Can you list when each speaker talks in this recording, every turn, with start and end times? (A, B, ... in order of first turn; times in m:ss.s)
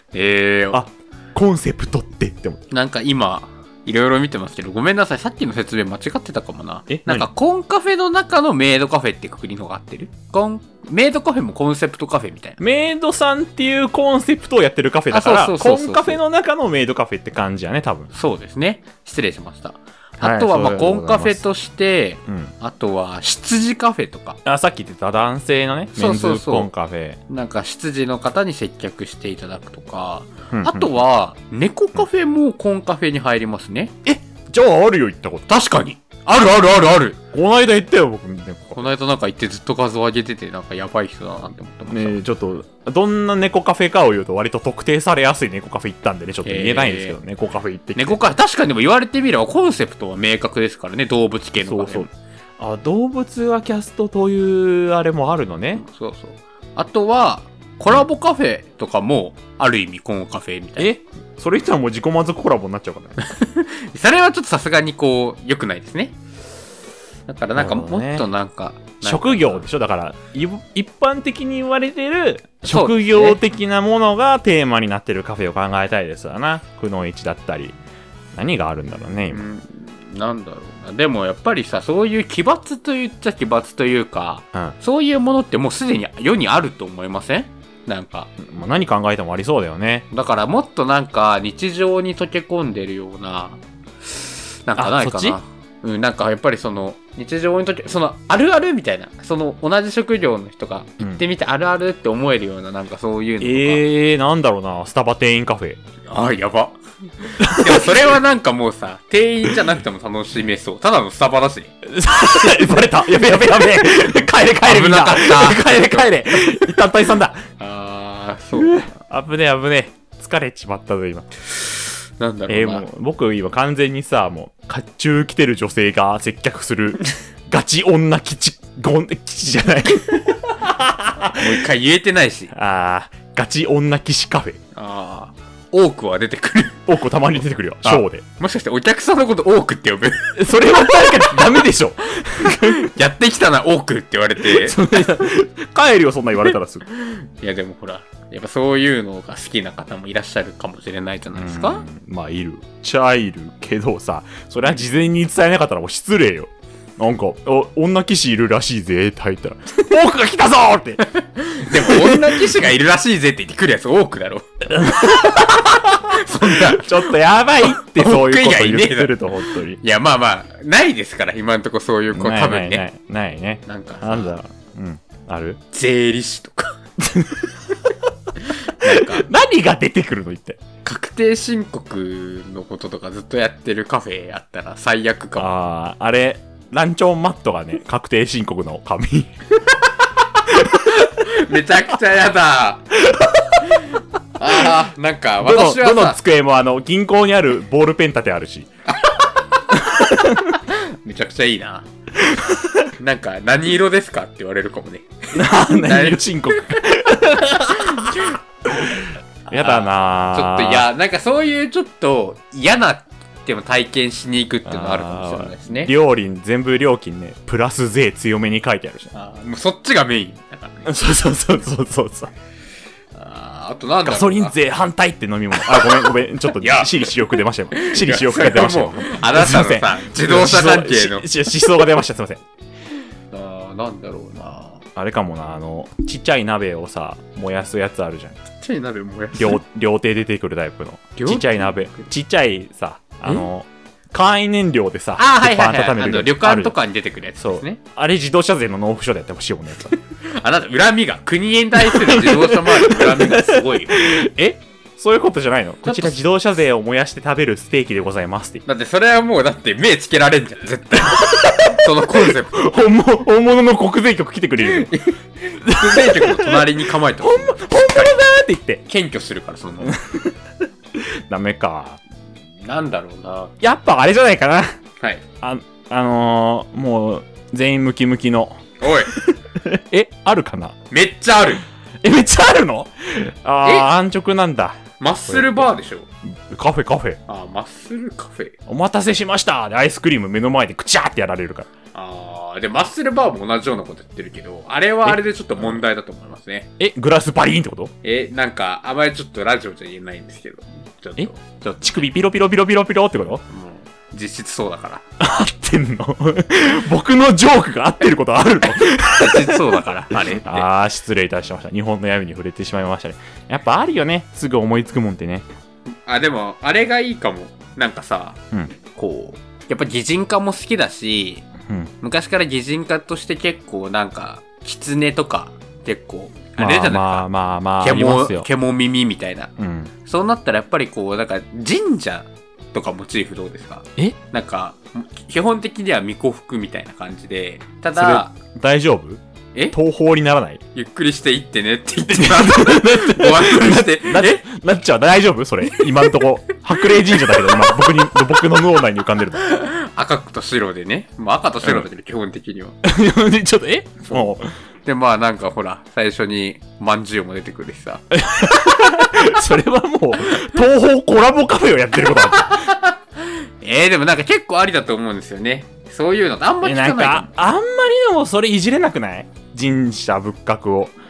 0:00.1-0:00.8 A
0:00.7-0:02.6 B
0:02.7-0:12.6 A
0:06.9-0:07.3 B
0:12.6-0:18.1 B
0:15.1-0:16.2 A
0:18.1-0:24.4 A
0:20.2-0:21.4 B
0:22.3-0:22.5 B
0:24.4-0:27.2 B
0:25.9-0:26.7 A
0:27.3-0:33.9 A
0:30.5-0:31.0 B
0:34.0-0:35.5 B
0:35.5-0:37.2 A
0:37.3-0:38.9 B
0:38.8-0:42.2 A
0:41.9-0:48.2 B
0:46.4-0:47.2 A
0:48.0-0:52.1 A
0:51.6-0:55.8 B
0:55.8-1:00.9 A
1:00.8-1:03.2 B
1:03.2-1:06.2 A
1:07.3-1:09.6 A
1:07.6-1:08.3 B
1:09.0-1:17.8 B
1:12.6-1:13.4 A
1:18.3-1:19.4 B
1:19.3-1:28.3 A
1:28.4-1:30.1 B
1:30.1-1:43.8 A
1:34.8-1:35.4 B
1:43.4-1:45.8 B
1:46.1-1:51.7 A
1:47.4-1:48.1 B
1:51.8-1:57.4 B
1:53.4-1:56.8 A
1:57.6-1:58.9 A
1:58.6-2:01.3 B
2:01.6-2:02.9 A
2:02.5-2:11.5 B
2:11.4-2:12.5 A
2:12.5-2:14.6 B
2:14.8-2:16.9 A
2:16.9-2:18.2 B
2:17.8-2:20.3 A
2:20.4-2:22.9 B
2:22.4-2:25.2 A
2:24.4-2:26.9 B
2:26.9-2:31.8 A
2:31.3-2:41.1 B
2:41.2-2:47.1 A
2:41.7-2:42.5 B
2:44.7-2:49.8 B
2:47.6-2:52.9 A
2:52.1-2:55.6 B
2:53.6-2:54.4 A
2:55.7-2:56.8 A
2:57.0-2:57.8 B
2:58.6-2:59.3 A
2:58.8-3:00.6 B
3:00.8-3:05.5 A
3:05.4-3:09.4 B
3:10.4-3:11.2 B
3:10.8-3:12.9 A
3:13.0-3:13.6 B
3:14.4-3:16.2 A
3:15.4-3:18.7 B
3:18.9-3:19.2 A
3:19.8-3:20.6 B
3:20.0-3:21.9 A
3:22.2-3:22.9 B
3:22.9-3:26.3 A
3:25.3-3:30.9 B
3:27.9-3:28.4 A
3:29.5-3:35.9 A
3:34.6-3:39.1 B
3:39.1-3:40.9 A
3:40.8-3:42.3 B
3:43.1-3:44.6 A
3:44.0-3:52.4 B
3:45.6-3:47.1 A
3:47.7-3:51.3 A
3:53.3-3:54.8 A
3:55.0-3:58.4 B
3:58.6-3:59.6 A
3:59.4-4:06.8 B
4:01.2-4:02.1 A
4:05.2-4:07.8 A
4:07.4-4:09.9 B
4:10.2-4:14.0 A
4:11.8-4:18.6 B
4:15.8-4:16.1 A
4:18.6-4:22.7 A
4:21.1-4:24.9 B
4:24.6-4:28.2 A
4:25.6-4:28.8 B
4:28.9-4:30.0 A
4:29.8-4:30.4 B
4:30.9-4:32.0 B
4:32.6-4:33.5 A
4:33.6-4:34.8 B
4:35.4-4:40.8 B
4:38.8-4:39.1 A
4:40.9-4:41.6 A
4:42.0-4:44.8 B
4:43.6-4:43.9 A
4:45.0-4:46.1 A
4:45.3-4:45.7 B
4:46.3-4:47.2 B
4:47.3-4:48.6 A
4:48.7-4:51.7 B
4:51.9-4:56.7 A
4:55.0-4:55.8 B
4:56.8-4:57.9 B
4:58.0-5:02.0 A
5:01.8-5:03.4 B
5:03.5-5:05.1 A
5:05.2-5:09.6 B
5:08.7-5:10.7 A
5:10.1-5:15.4 B
5:16.0-5:21.5 A
5:21.6-5:21.9 B
5:22.0-5:27.3 A
5:26.6-5:28.5 B
5:27.8-5:38.3 A
5:29.6-5:29.9 B
5:37.9-5:39.2 B
5:39.7-5:40.6 B
5:40.8-5:44.4 A
5:42.1-5:49.5 B
5:45.7-5:46.2 A
5:46.8-5:47.8 A
5:49.4-5:52.8 A
5:52.8-5:54.5 B
5:54.1-5:54.3 A
5:54.8-5:58.0 A
5:58.1-6:02.7 B
6:02.5-6:07.3 A
6:06.6-6:10.9 B